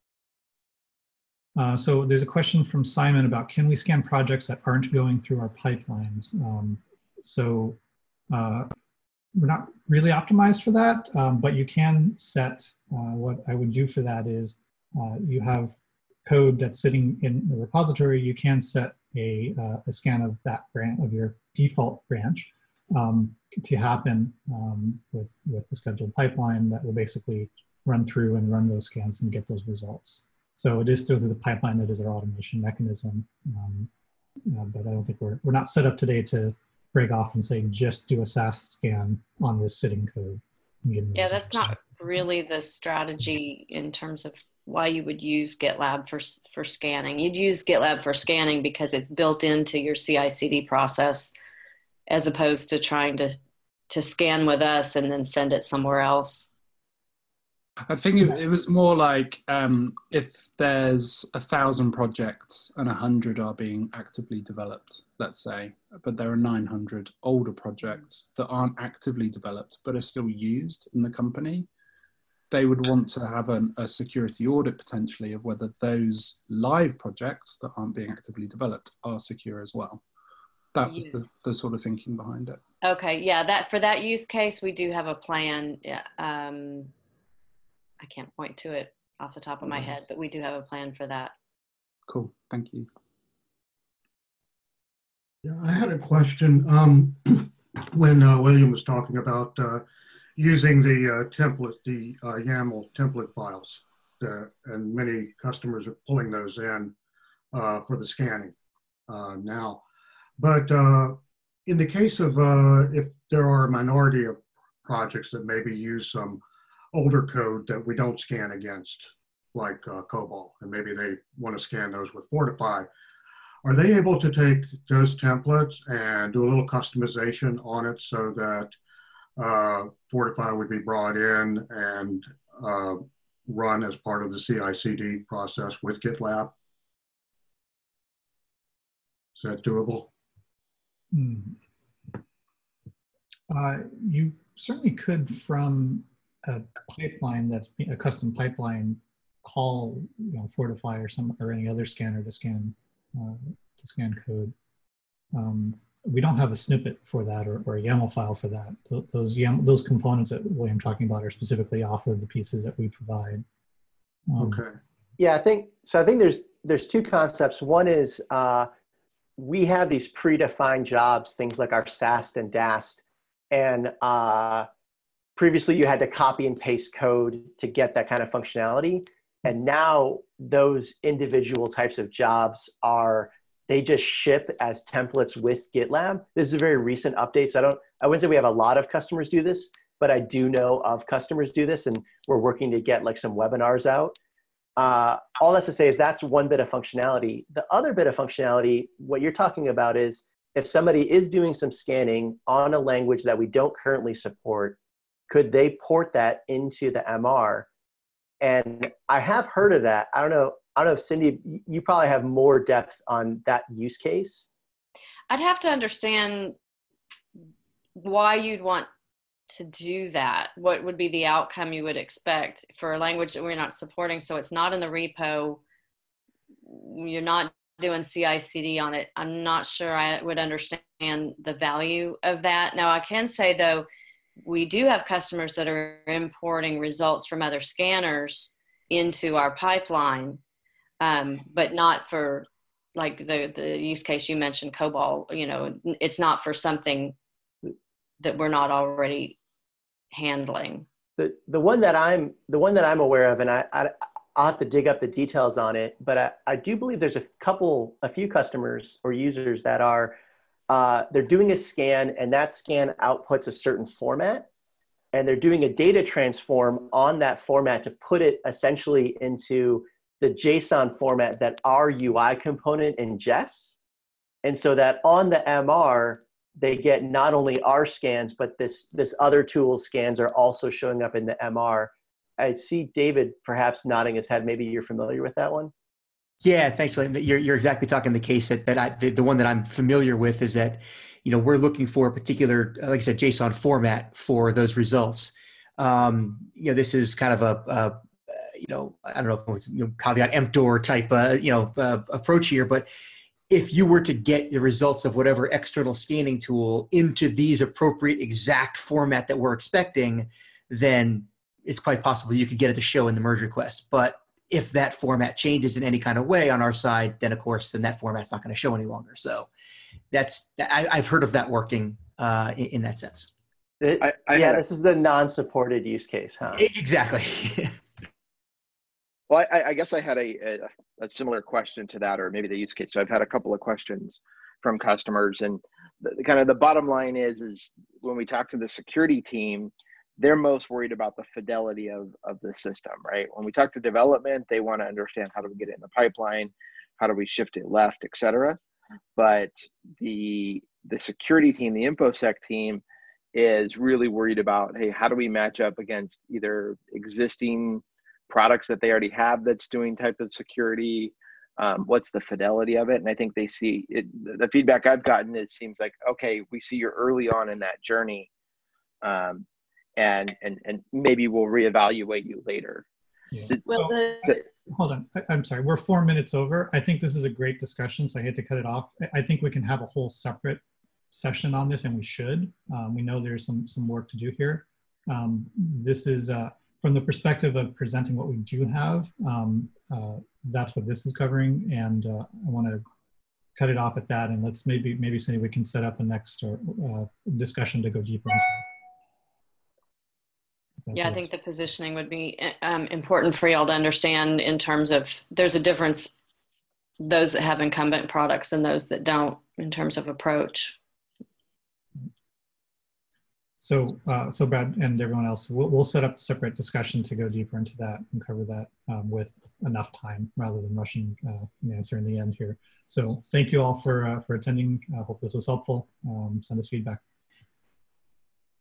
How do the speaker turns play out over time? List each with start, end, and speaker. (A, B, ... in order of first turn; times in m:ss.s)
0:01.6-0:07.8 A
0:08.3-0:08.7 A
0:09.3-0:33.9 A
0:34.5-0:42.2 A
0:41.1-0:51.4 B
0:52.1-0:53.4 B
0:53.9-0:56.5 B
0:57.9-1:11.7 C
1:12.5-1:20.0 C
1:20.7-1:22.6 C
1:20.8-1:21.2 B
1:22.8-1:26.9 B
1:28.0-1:31.3 B
1:32.1-1:32.9 C
1:35.4-1:39.8 D
1:40.4-1:46.9 D
1:47.5-1:48.5 D
1:49.1-1:49.8 D
1:50.4-1:56.4 D
1:56.9-2:02.9 D
2:03.6-2:08.7 D
2:09.4-2:16.5 D
2:19.4-2:20.1 D
2:21.1-2:21.6 A
2:23.5-2:34.5 A
2:35.3-2:43.4 A
2:44.3-2:44.6 A
2:44.4-2:44.7 D
2:45.2-2:48.7 E
2:49.4-2:54.7 E
2:55.4-3:14.2 E
3:14.8-3:24.8 E
3:25.3-3:27.7 E
3:28.4-3:34.4 E
3:35.3-3:36.6 B
3:38.0-3:38.9 B
3:39.5-3:45.6 B
3:46.6-3:53.9 B
3:54.4-4:00.4 B
4:01.0-4:07.1 B
4:08.2-4:09.4 B
4:10.1-4:10.8 B
4:11.2-4:20.2 E
4:20.7-4:24.5 E
4:25.1-4:33.7 E
4:34.4-4:45.7 E
4:46.4-5:02.9 F
5:03.5-5:19.5 F
5:20.1-5:23.3 F
5:23.8-5:26.6 E
5:24.0-5:24.6 G
5:26.6-5:27.7 F
5:29.3-5:48.6 G
5:49.2-5:52.8 G
5:53.3-6:08.3 G
6:09.0-6:09.4 G
6:10.0-6:12.8 G
6:13.3-6:32.8 A
6:13.5-6:14.4 G
6:13.7-6:14.3 B
6:33.6-6:38.6 A
6:40.8-6:41.2 A
6:40.9-6:46.1 B
6:47.0-6:50.8 B
6:53.6-7:07.0 A